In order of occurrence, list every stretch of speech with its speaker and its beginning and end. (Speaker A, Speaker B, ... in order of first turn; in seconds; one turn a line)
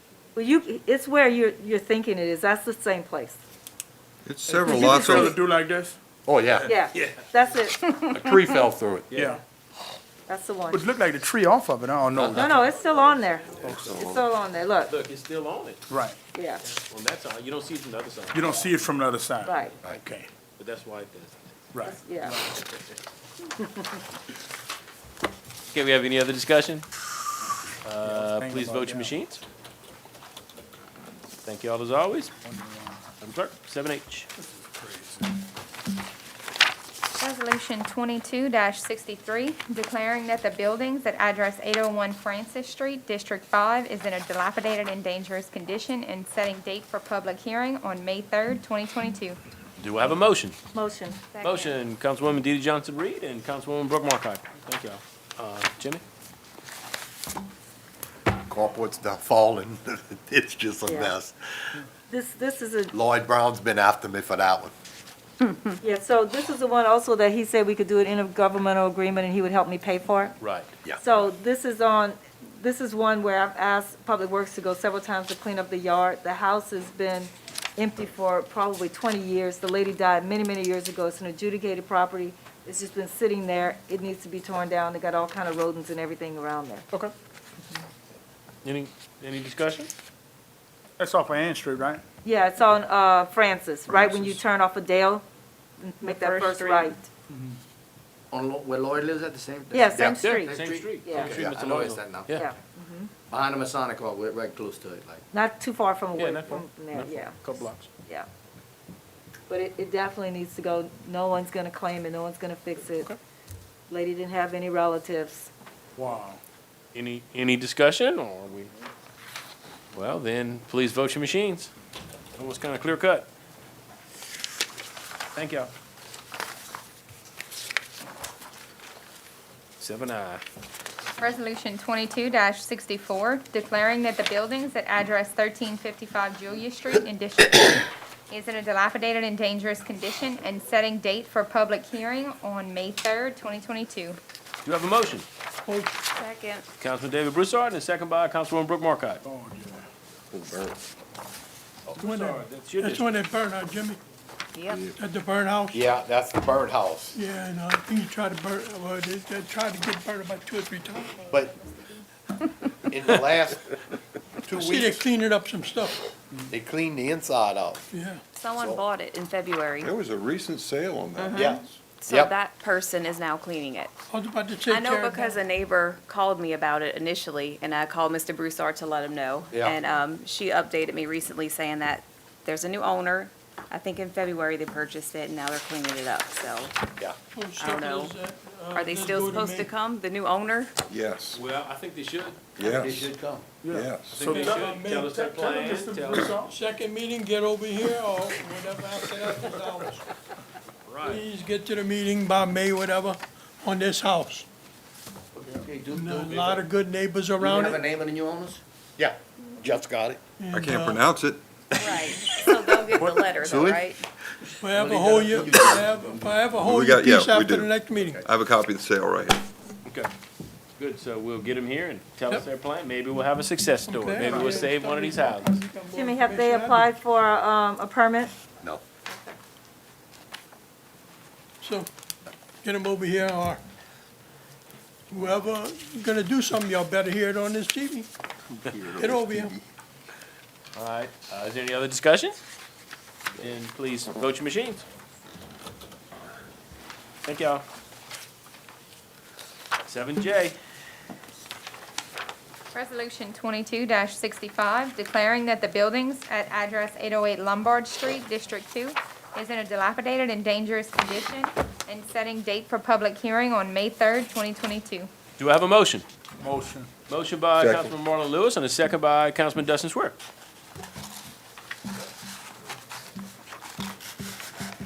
Speaker A: 0.3-3.4
Speaker B: 4.2-5.3
Speaker C: 4.5-6.0
Speaker A: 4.6-5.3
Speaker D: 6.2-6.8
Speaker A: 6.7-8.0
Speaker E: 6.9-7.2
Speaker D: 8.1-9.1
Speaker E: 9.1-9.4
Speaker C: 9.1-9.4
Speaker A: 10.3-10.9
Speaker C: 10.7-12.7
Speaker D: 12.1-12.5
Speaker A: 12.3-14.9
Speaker C: 13.6-14.0
Speaker E: 14.9-15.8
Speaker C: 15.9-16.2
Speaker A: 16.3-16.6
Speaker E: 16.6-18.7
Speaker C: 18.3-20.3
Speaker A: 19.4-19.8
Speaker E: 20.6-21.4
Speaker C: 21.7-22.6
Speaker A: 21.8-22.4
Speaker E: 25.7-26.9
Speaker E: 27.8-29.4
Speaker C: 28.0-29.2
Speaker E: 31.4-32.3
Speaker C: 32.4-33.0
Speaker E: 33.2-34.3
Speaker C: 34.7-35.2
Speaker F: 37.2-49.4
Speaker E: 49.8-50.5
Speaker A: 50.7-51.2
Speaker G: 51.3-51.7
Speaker E: 51.4-56.0
Speaker D: 58.5-61.8
Speaker A: 60.9-61.1
Speaker A: 62.1-62.9
Speaker D: 62.9-64.7
Speaker A: 65.8-70.4
Speaker E: 70.4-70.7
Speaker A: 71.0-86.8
Speaker E: 88.6-89.9
Speaker C: 91.0-92.0
Speaker A: 92.2-95.2
Speaker A: 95.8-97.1
Speaker G: 96.2-96.8
Speaker C: 97.3-97.6
Speaker H: 98.3-102.3
Speaker A: 99.7-101.4
Speaker E: 100.2-102.5
Speaker A: 102.3-103.1
Speaker H: 103.3-105.2
Speaker A: 105.3-107.4
Speaker E: 106.1-107.9
Speaker A: 109.5-113.1
Speaker A: 113.9-115.5
Speaker C: 116.0-116.4
Speaker E: 116.9-118.7
Speaker E: 119.9-121.7
Speaker E: 122.3-123.3
Speaker E: 125.3-125.7
Speaker E: 129.8-130.4
Speaker F: 131.2-137.8
Speaker F: 138.3-144.2
Speaker E: 144.6-145.2
Speaker I: 145.7-145.9
Speaker G: 146.1-146.6
Speaker E: 146.8-149.2
Speaker C: 149.2-149.8
Speaker B: 150.3-150.8
Speaker E: 152.0-153.1
Speaker I: 152.0-154.0
Speaker G: 154.5-154.9
Speaker I: 155.0-155.8
Speaker D: 155.7-157.2
Speaker I: 157.1-161.3
Speaker D: 161.3-161.6
Speaker D: 162.8-163.7
Speaker D: 164.4-165.1
Speaker I: 164.5-166.0
Speaker D: 166.5-167.8
Speaker I: 167.9-168.2
Speaker G: 168.4-169.9
Speaker D: 168.5-168.8
Speaker B: 169.8-171.7
Speaker G: 171.2-173.9
Speaker D: 171.3-172.3
Speaker I: 174.1-175.4
Speaker G: 174.7-186.8
Speaker D: 179.5-179.8
Speaker I: 187.3-189.7
Speaker G: 187.6-188.1
Speaker G: 188.7-190.7
Speaker B: 190.9-191.4
Speaker E: 191.3-193.0
Speaker B: 192.6-194.2
Speaker H: 193.1-193.4
Speaker C: 193.6-196.5
Speaker E: 194.0-196.3
Speaker I: 194.2-200.0
Speaker E: 200.8-201.2
Speaker I: 201.0-204.4
Speaker H: 205.6-206.6
Speaker I: 205.9-207.9
Speaker H: 207.4-208.6
Speaker D: 209.0-210.2
Speaker I: 210.4-211.0
Speaker B: 210.5-211.4
Speaker G: 211.8-214.0
Speaker E: 212.9-213.2
Speaker D: 213.4-213.9
Speaker I: 214.6-218.2
Speaker H: 214.8-216.2
Speaker B: 216.5-219.4
Speaker E: 220.8-225.6
Speaker I: 223.8-226.9
Speaker C: 224.3-224.7
Speaker A: 225.9-228.3
Speaker I: 231.6-231.9
Speaker I: 232.6-233.6
Speaker I: 235.1-238.1
Speaker B: 238.5-239.5
Speaker I: 238.8-239.6
Speaker E: 240.7-242.4
Speaker E: 243.4-244.8
Speaker E: 247.2-247.6
Speaker E: 249.8-250.6
Speaker F: 252.7-265.1
Speaker E: 265.4-266.1
Speaker C: 266.4-266.9
Speaker E: 267.1-270.1
Speaker B: 267.6-267.9